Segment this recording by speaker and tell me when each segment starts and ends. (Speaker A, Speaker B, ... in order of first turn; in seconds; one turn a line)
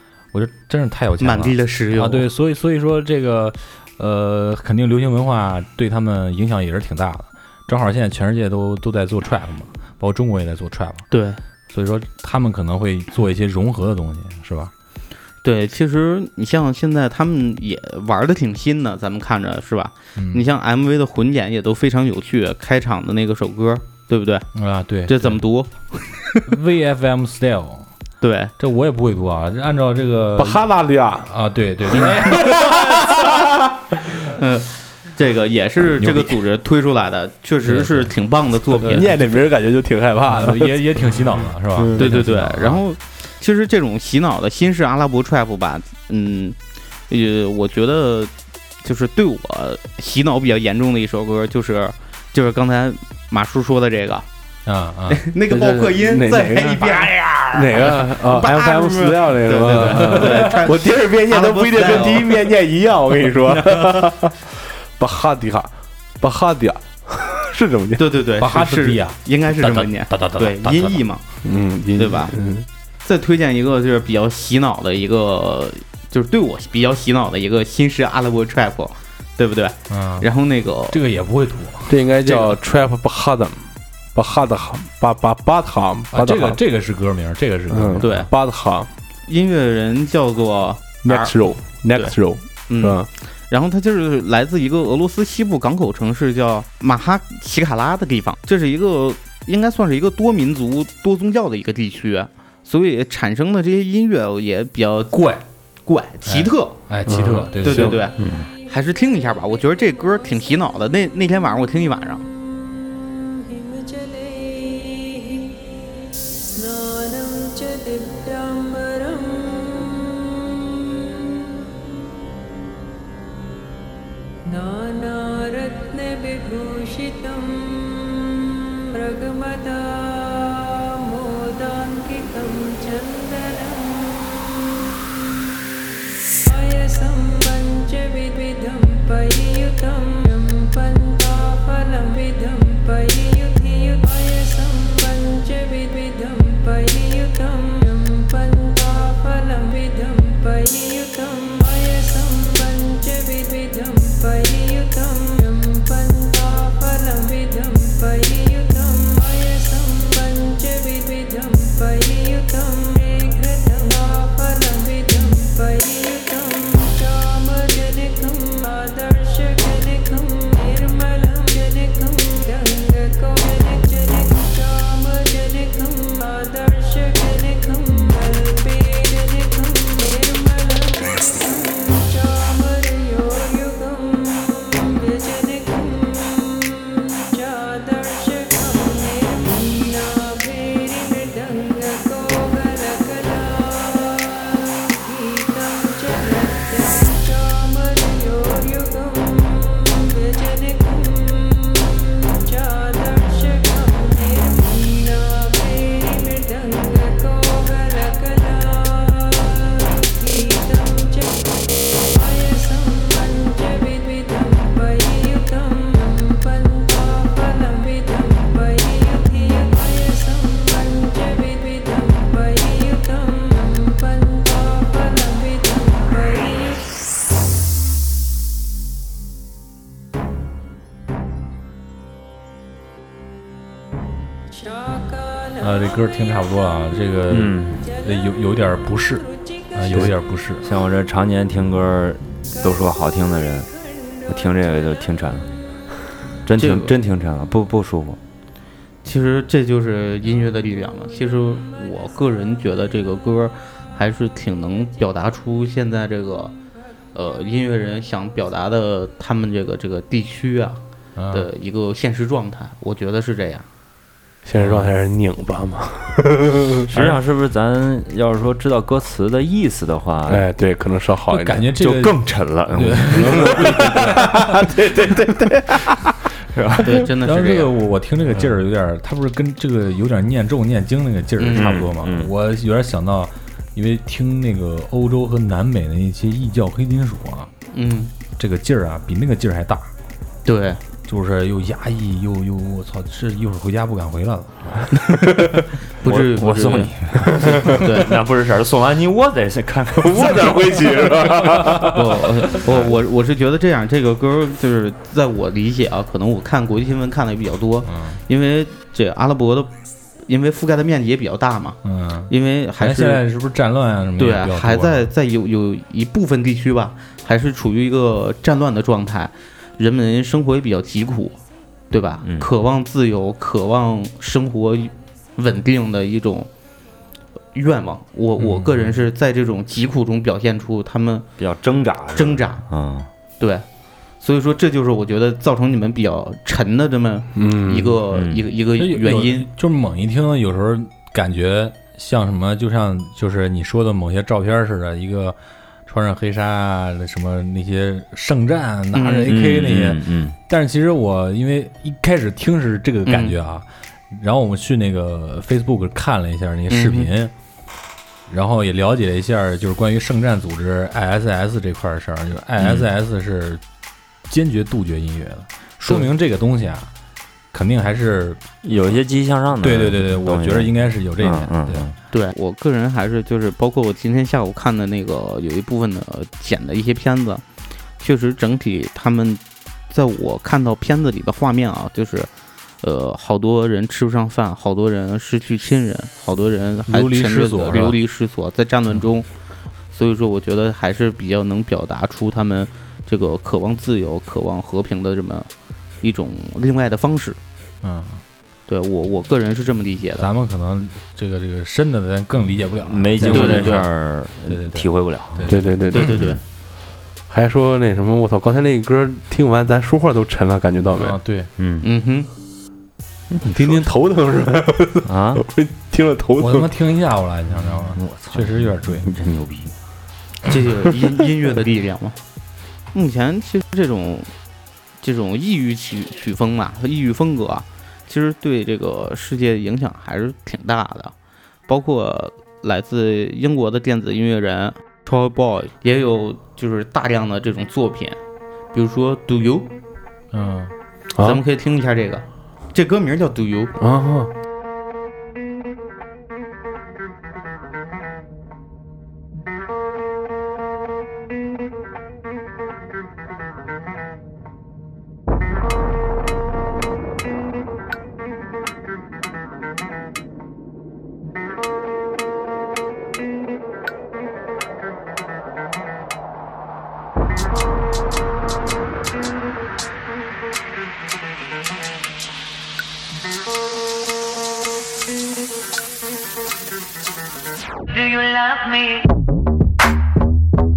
Speaker A: 0.3-11.1
Speaker B: 1.2-2.2
Speaker B: 11.1-11.4
Speaker A: 11.7-14.7
Speaker B: 15.4-24.5
Speaker A: 20.1-20.4
Speaker A: 24.5-25.4
Speaker B: 25.1-26.4
Speaker A: 26.4-27.9
Speaker B: 28.2-28.5
Speaker A: 28.6-30.6
Speaker C: 30.4-31.3
Speaker A: 31.2-33.0
Speaker C: 31.9-33.4
Speaker B: 34.3-39.1
Speaker A: 35.9-36.4
Speaker A: 37.6-38.1
Speaker C: 38.8-40.8
Speaker A: 40.2-42.8
Speaker C: 41.8-42.1
Speaker B: 42.0-46.6
Speaker B: 47.1-48.3
Speaker B: 48.8-54.2
Speaker A: 54.6-55.2
Speaker B: 55.1-62.5
Speaker C: 55.5-68.0
Speaker A: 59.7-60.5
Speaker B: 63.5-64.0
Speaker B: 68.0-71.2
Speaker A: 68.4-71.0
Speaker C: 71.4-72.6
Speaker B: 72.0-72.4
Speaker B: 73.0-81.0
Speaker A: 79.9-80.3
Speaker A: 80.9-82.0
Speaker C: 81.9-86.6
Speaker A: 86.1-88.2
Speaker C: 87.7-88.9
Speaker B: 88.0-88.3
Speaker B: 89.3-92.1
Speaker C: 91.0-93.1
Speaker B: 92.7-105.3
Speaker A: 105.1-105.4
Speaker B: 105.8-106.8
Speaker A: 106.2-108.0
Speaker C: 107.0-108.0
Speaker B: 107.6-112.2
Speaker D: 108.2-108.5
Speaker E: 113.3-115.7
Speaker E: 116.5-121.5
Speaker E: 124.5-135.0
Speaker E: 136.4-211.5
Speaker E: 212.1-226.9
Speaker E: 234.6-235.6
Speaker A: 235.6-240.6
Speaker D: 237.3-237.8
Speaker D: 239.9-243.7
Speaker D: 244.2-245.5
Speaker D: 246.4-248.2
Speaker B: 246.6-246.9
Speaker B: 249.0-256.5
Speaker B: 257.1-263.7
Speaker A: 261.1-261.5
Speaker C: 264.4-266.9
Speaker A: 264.6-264.9
Speaker D: 266.9-270.5
Speaker A: 266.9-267.2
Speaker C: 270.3-271.6
Speaker A: 271.3-274.6
Speaker D: 271.8-274.3
Speaker C: 273.1-275.9
Speaker D: 276.5-276.9
Speaker B: 276.8-277.7
Speaker A: 277.2-287.5
Speaker B: 281.4-281.8
Speaker D: 281.6-282.3
Speaker B: 287.7-288.1
Speaker A: 288.4-289.9
Speaker B: 290.4-290.8
Speaker A: 291.1-294.9
Speaker B: 296.0-298.1
Speaker D: 296.0-301.3
Speaker C: 300.0-302.0
Speaker B: 301.9-309.7
Speaker D: 302.5-302.9
Speaker A: 307.9-308.2
Speaker B: 310.2-313.2
Speaker A: 311.8-315.1
Speaker B: 314.2-321.4
Speaker B: 321.9-326.5
Speaker B: 327.5-331.3
Speaker A: 328.4-329.0
Speaker D: 331.4-333.1
Speaker B: 332.1-332.6
Speaker B: 333.4-333.6
Speaker B: 334.2-339.5
Speaker C: 337.4-338.0
Speaker D: 338.1-338.4
Speaker A: 338.8-357.3
Speaker B: 348.9-349.3
Speaker D: 349.3-350.4
Speaker B: 353.1-353.3
Speaker B: 356.7-357.1
Speaker A: 358.3-363.6
Speaker D: 362.6-362.9
Speaker A: 364.3-366.9
Speaker A: 367.5-368.4
Speaker D: 368.6-371.9
Speaker A: 369.6-371.9
Speaker B: 372.1-377.4
Speaker B: 378.0-382.3
Speaker B: 382.8-389.3
Speaker A: 386.9-388.0
Speaker B: 389.9-395.5
Speaker B: 396.0-397.4
Speaker A: 397.8-398.2
Speaker B: 398.7-400.3
Speaker A: 400.2-403.9
Speaker D: 402.9-406.4
Speaker B: 403.3-403.9
Speaker A: 404.5-405.7
Speaker C: 405.5-406.2
Speaker B: 405.9-406.4
Speaker C: 407.3-411.2
Speaker A: 410.9-411.5
Speaker D: 411.6-411.9
Speaker B: 411.8-412.3
Speaker D: 413.3-413.9
Speaker C: 413.5-416.7
Speaker D: 415.0-415.4
Speaker A: 416.4-419.1
Speaker D: 417.7-419.7
Speaker B: 420.4-422.2
Speaker B: 422.9-424.3
Speaker B: 425.0-431.1
Speaker B: 431.7-438.2
Speaker B: 438.7-439.7
Speaker A: 440.3-440.7
Speaker C: 441.1-441.4
Speaker B: 441.2-443.7
Speaker C: 443.8-444.3